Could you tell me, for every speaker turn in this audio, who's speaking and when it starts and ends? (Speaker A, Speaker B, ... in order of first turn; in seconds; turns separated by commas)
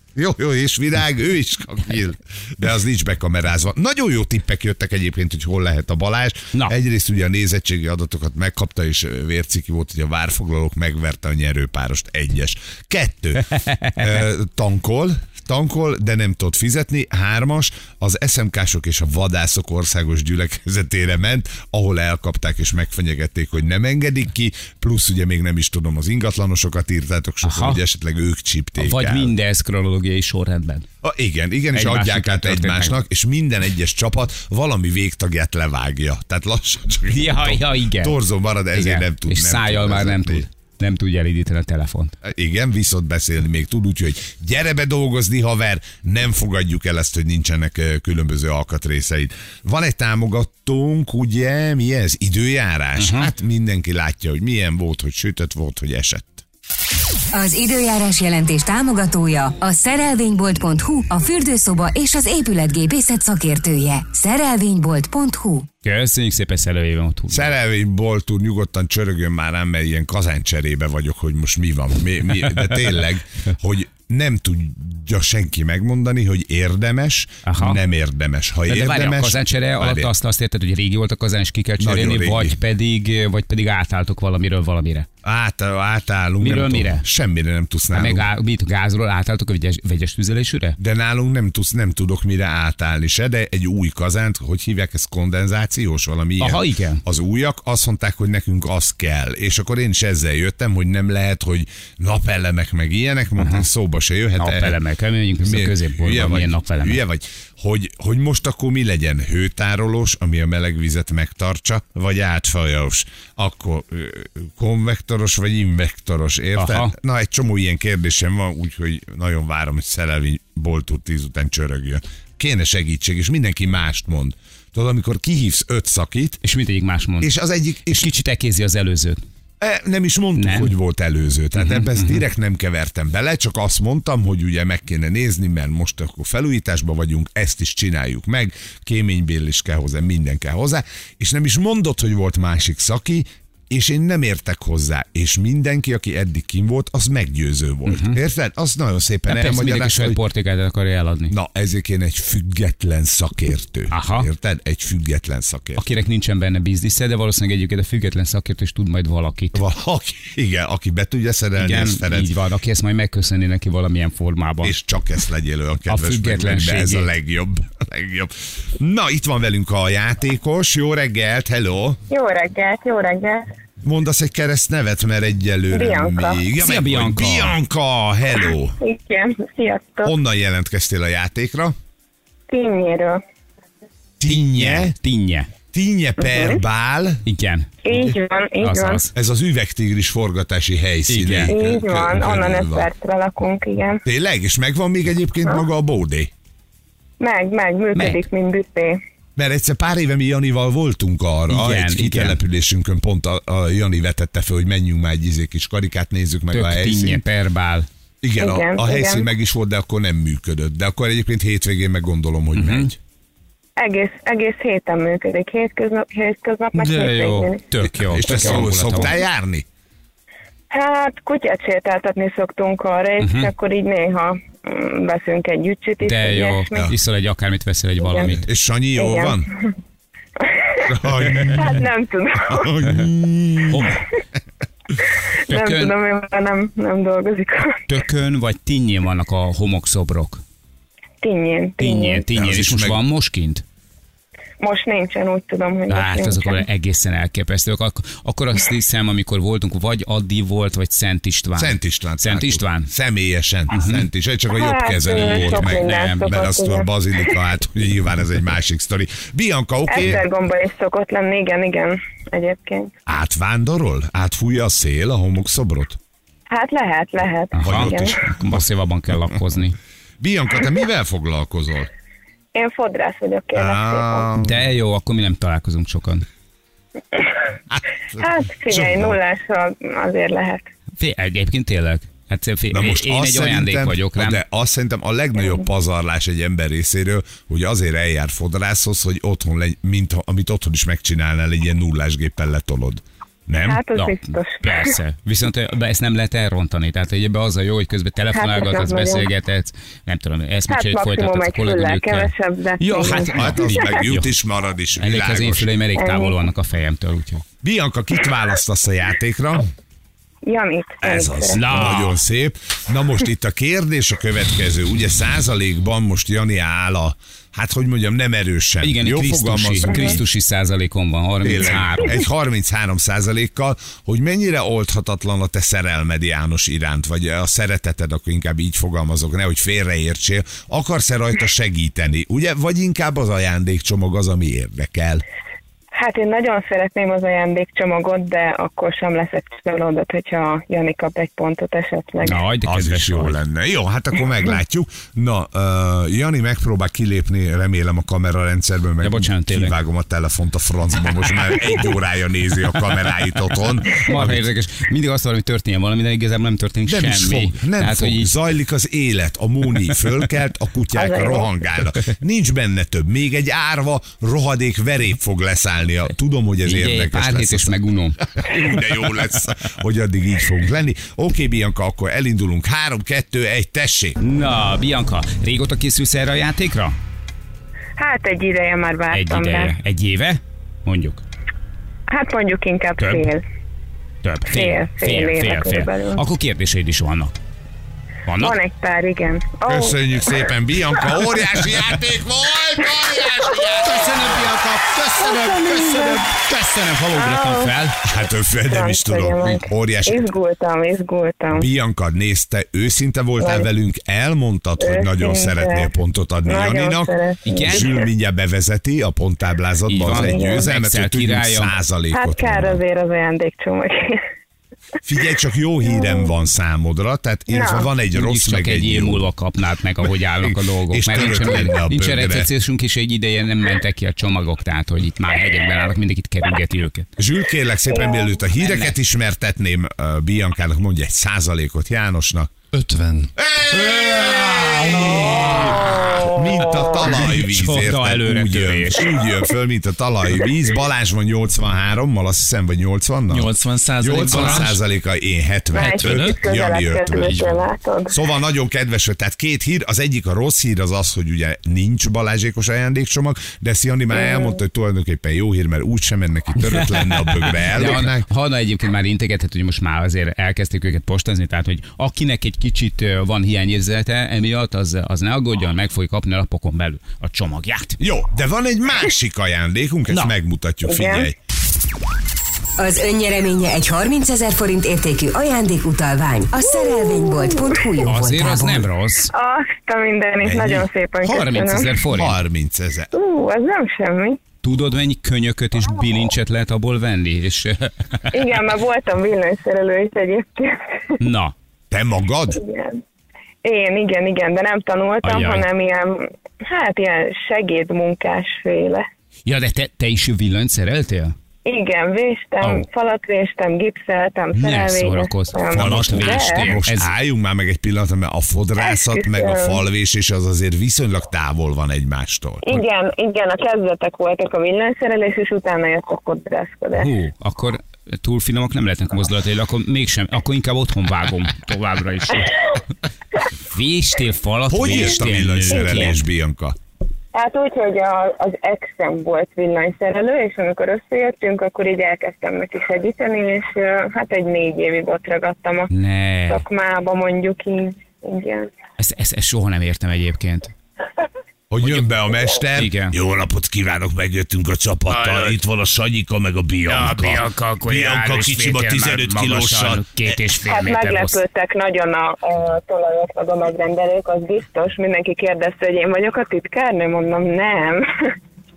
Speaker A: 0.1-29.3, Speaker B: 13.5-14.1, Speaker B: 27.4-27.8, Speaker B: 28.8-30.9, Speaker A: 31.0-40.4, Speaker B: 31.7-33.0, Speaker B: 37.1-38.2, Speaker B: 38.7-42.1, Speaker A: 42.2-56.4, Speaker B: 53.0-53.3, Speaker C: 57.3-65.7, Speaker B: 65.8-67.5, Speaker A: 67.3-80.1, Speaker B: 77.4-77.8, Speaker B: 78.7-85.1, Speaker A: 81.8-82.6, Speaker A: 85.2-88.3, Speaker B: 86.4-87.0, Speaker B: 87.9-90.8, Speaker A: 90.8-104.8, Speaker B: 96.4-97.0, Speaker B: 103.4-103.7, Speaker B: 104.4-107.0, Speaker A: 105.4-126.4, Speaker B: 116.6-116.9, Speaker B: 126.4-127.3, Speaker A: 127.2-128.1, Speaker B: 127.9-129.2, Speaker A: 129.6-150.2, Speaker B: 130.3-130.7, Speaker B: 131.5-132.2, Speaker B: 147.8-148.2, Speaker B: 149.3-151.3, Speaker A: 151.3-155.8, Speaker B: 153.9-154.3, Speaker B: 155.8-159.6, Speaker A: 159.5-162.3, Speaker B: 161.6-164.8, Speaker A: 164.6-172.0, Speaker B: 165.9-167.1, Speaker D: 172.1-173.5, Speaker A: 173.8-178.8, Speaker D: 175.7-176.4, Speaker B: 176.6-177.6, Speaker D: 178.8-180.1, Speaker A: 180.0-181.7, Speaker D: 182.5-183.2, Speaker A: 184.2-184.9, Speaker B: 184.2-185.5, Speaker A: 185.7-187.2, Speaker D: 186.2-186.6, Speaker B: 187.2-188.0, Speaker D: 187.8-189.0, Speaker B: 188.6-189.1, Speaker A: 189.1-192.9, Speaker B: 191.1-191.5, Speaker D: 191.5-194.0, Speaker A: 194.0-196.3, Speaker D: 197.2-199.0, Speaker B: 197.9-198.2, Speaker A: 199.3-207.2, Speaker B: 201.5-202.4, Speaker B: 206.5-207.9, Speaker A: 208.2-213.0, Speaker D: 208.4-209.3, Speaker B: 212.5-212.9, Speaker D: 213.8-217.6, Speaker B: 216.7-219.1, Speaker A: 217.9-219.7, Speaker D: 220.7-226.9, Speaker B: 223.2-223.5, Speaker B: 226.0-228.4, Speaker D: 228.0-228.3, Speaker A: 228.3-229.5, Speaker D: 228.9-229.4, Speaker D: 230.4-232.7, Speaker A: 230.8-231.8, Speaker A: 232.4-234.0, Speaker B: 233.7-234.0, Speaker B: 235.5-235.9, Speaker D: 235.5-237.8, Speaker B: 237.9-240.4, Speaker D: 241.2-242.2, Speaker B: 241.8-243.6, Speaker A: 242.3-243.0, Speaker D: 244.6-246.6, Speaker B: 245.9-252.9, Speaker A: 251.6-260.2, Speaker B: 253.7-254.1, Speaker D: 254.5-256.9, Speaker B: 255.2-256.4, Speaker D: 259.9-262.9, Speaker A: 263.1-266.0, Speaker D: 266.5-268.2, Speaker B: 267.5-269.8, Speaker A: 267.6-268.6, Speaker A: 270.2-271.9, Speaker D: 272.5-274.3, Speaker A: 273.5-274.6, Speaker B: 274.4-276.2, Speaker A: 277.7-279.2, Speaker D: 278.2-280.7, Speaker B: 281.0-284.4, Speaker A: 282.7-293.8, Speaker D: 293.6-294.9, Speaker B: 293.9-304.3, Speaker D: 298.3-299.3, Speaker D: 300.7-304.0, Speaker A: 303.1-305.7, Speaker B: 305.0-307.4, Speaker D: 305.9-306.4, Speaker A: 307.6-309.7, Speaker D: 310.4-311.6, Speaker A: 311.0-320.2, Speaker B: 311.5-312.2, Speaker B: 318.8-322.2, Speaker D: 319.9-320.1, Speaker A: 321.4-335.2, Speaker D: 335.9-342.4, Speaker B: 342.2-343.4, Speaker A: 342.6-354.4, Speaker B: 349.0-349.8, Speaker B: 354.0-358.3, Speaker A: 356.9-374.2, Speaker D: 360.9-361.5, Speaker B: 366.6-368.2, Speaker B: 374.2-377.0, Speaker D: 378.0-379.7, Speaker B: 379.1-381.2, Speaker D: 382.1-383.4, Speaker B: 383.0-383.3, Speaker B: 384.2-387.4, Speaker D: 384.5-386.2, Speaker B: 388.2-388.6, Speaker D: 388.4-390.5, Speaker A: 389.6-394.4, Speaker B: 393.8-398.0, Speaker D: 395.2-396.2, Speaker D: 397.1-397.7, Speaker A: 398.0-400.3, Speaker D: 398.7-401.6, Speaker A: 401.5-407.1, Speaker D: 403.4-403.7, Speaker D: 404.8-405.9, Speaker D: 406.4-408.1, Speaker B: 407.4-408.0, Speaker A: 407.6-412.8, Speaker B: 409.9-411.7, Speaker D: 410.1-410.7, Speaker D: 412.1-414.2, Speaker A: 415.0-419.3, Speaker D: 417.5-417.9, Speaker B: 418.1-427.1, Speaker A: 420.4-422.5, Speaker A: 427.2-432.5, Speaker D: 427.9-428.3, Speaker B: 428.6-428.9, Speaker E: 432.8-433.3, Speaker A: 433.4-447.4, Speaker B: 433.9-436.2, Speaker D: 435.5-437.2, Speaker B: 437.0-439.1, Speaker E: 443.3-444.7, Speaker D: 445.7-448.2, Speaker A: 448.1-458.2, Speaker B: 456.7-468.0, Speaker A: 468.0-471.4, Speaker D: 470.9-471.3, Speaker C: 472.8-478.9, Speaker B: 478.0-479.3, Speaker D: 479.3-481.9, Speaker A: 480.4-480.8, Speaker B: 481.2-482.4, Speaker A: 482.1-483.1, Speaker D: 483.1-484.4, Speaker B: 484.6-488.4, Speaker D: 488.3-491.2, Speaker B: 491.2-491.5, Speaker A: 491.9-492.6, Speaker D: 492.5-493.0, Speaker D: 493.6-499.1, Speaker B: 495.2-495.7, Speaker B: 499.4-501.3, Speaker D: 501.6-506.7, Speaker B: 504.5-507.1, Speaker A: 505.7-512.8, Speaker D: 508.8-509.8, Speaker D: 512.6-517.1, Speaker B: 516.9-522.6, Speaker B: 523.7-526.2, Speaker A: 524.7-526.8, Speaker D: 527.3-535.9, Speaker B: 535.9-536.6, Speaker D: 536.5-538.7, Speaker B: 539.0-540.7, Speaker A: 541.7-550.0, Speaker B: 542.7-543.2, Speaker B: 545.1-545.5, Speaker B: 546.8-551.4, Speaker D: 550.6-558.3